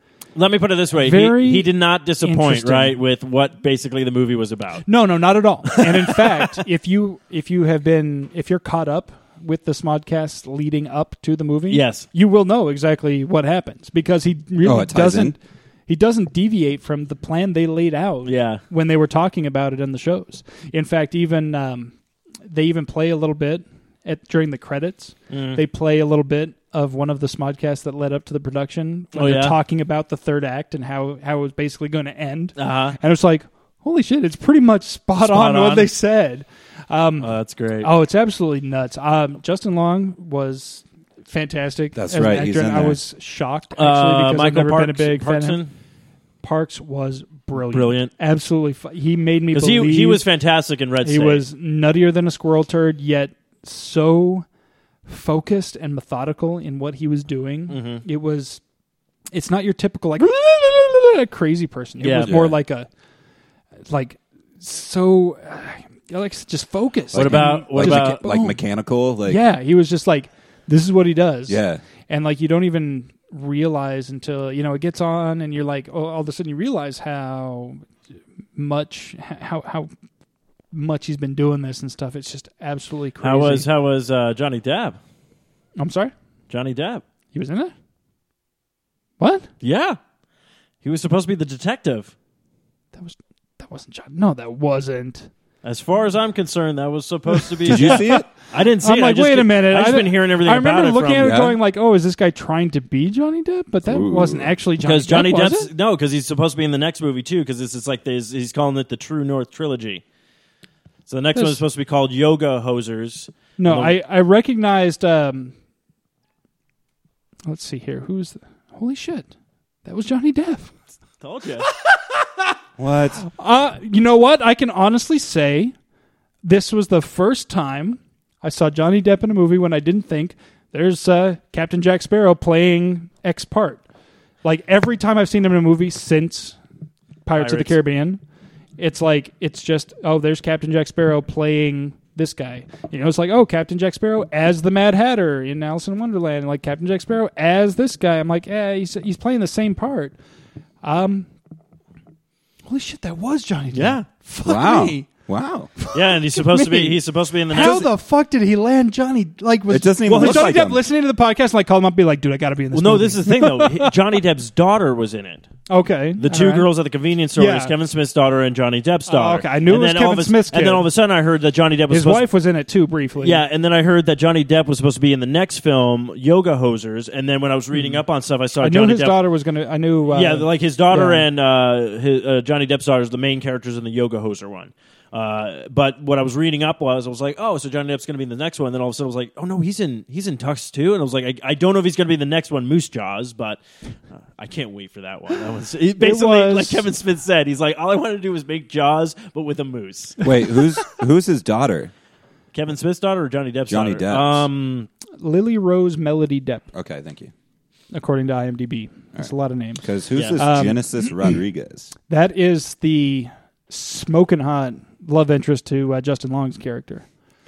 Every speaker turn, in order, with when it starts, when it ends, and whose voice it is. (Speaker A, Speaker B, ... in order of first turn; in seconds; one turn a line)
Speaker A: 0.3-4.9
Speaker B: 1.0-3.0
Speaker B: 4.8-21.9
Speaker A: 11.7-12.1
Speaker C: 14.6-15.3
Speaker A: 18.2-18.6
Speaker B: 22.5-37.3
Speaker A: 25.3-25.6
Speaker A: 29.1-29.6
Speaker A: 32.5-33.0
Speaker A: 35.2-35.9
Speaker A: 37.2-37.9
Speaker B: 37.8-45.6
Speaker C: 41.9-43.0
Speaker A: 43.8-45.7
Speaker B: 46.4-50.2
Speaker A: 47.7-48.1
Speaker A: 49.5-51.4
Speaker B: 51.0-54.5
Speaker B: 55.0-58.6
Speaker A: 57.7-58.0
Speaker B: 59.3-62.9
Speaker A: 62.0-62.4
Speaker C: 62.2-62.6
Speaker B: 63.9-68.6
Speaker A: 67.1-68.2
Speaker C: 67.1-69.4
Speaker B: 69.2-77.8
Speaker C: 71.5-71.8
Speaker B: 78.5-79.9
Speaker B: 80.7-83.7
Speaker A: 83.2-85.0
Speaker B: 85.8-86.1
Speaker A: 86.5-87.0
Speaker B: 87.3-87.7
Speaker B: 89.2-89.5
Speaker A: 89.6-90.0
Speaker A: 90.8-92.1
Speaker B: 92.9-95.3
Speaker A: 95.6-101.4
Speaker C: 97.6-98.3
Speaker B: 97.7-98.0
Speaker B: 98.8-105.7
Speaker C: 101.2-101.6
Speaker C: 103.8-104.5
Speaker A: 104.8-110.0
Speaker A: 111.1-114.0
Speaker B: 111.3-111.6
Speaker B: 113.6-115.5
Speaker B: 117.5-119.3
Speaker B: 119.8-120.7
Speaker A: 121.2-121.7
Speaker B: 121.7-122.4
Speaker C: 122.8-123.2
Speaker B: 123.2-125.7
Speaker B: 126.4-133.8
Speaker B: 134.4-136.6
Speaker B: 137.2-138.2
Speaker A: 137.3-137.8
Speaker B: 138.8-150.1
Speaker B: 150.8-151.3
Speaker B: 152.7-155.1
Speaker A: 153.7-154.1
Speaker C: 154.4-155.7
Speaker B: 155.8-157.0
Speaker A: 155.9-157.9
Speaker B: 157.5-163.9
Speaker C: 159.7-160.8
Speaker A: 160.1-160.6
Speaker A: 162.7-165.4
Speaker B: 165.7-166.7
Speaker A: 166.2-172.3
Speaker B: 167.3-167.7
Speaker B: 169.1-170.9
Speaker B: 171.9-173.4
Speaker A: 173.2-179.2
Speaker B: 177.7-178.0
Speaker B: 178.6-181.2
Speaker A: 180.1-193.6
Speaker A: 194.1-200.2
Speaker B: 196.0-196.9
Speaker C: 200.2-201.9
Speaker A: 202.5-204.9
Speaker C: 203.7-204.5
Speaker B: 205.2-206.7
Speaker C: 206.7-207.3
Speaker B: 207.9-209.8
Speaker C: 209.8-211.9
Speaker A: 210.1-210.4
Speaker B: 210.3-210.8
Speaker B: 212.1-217.1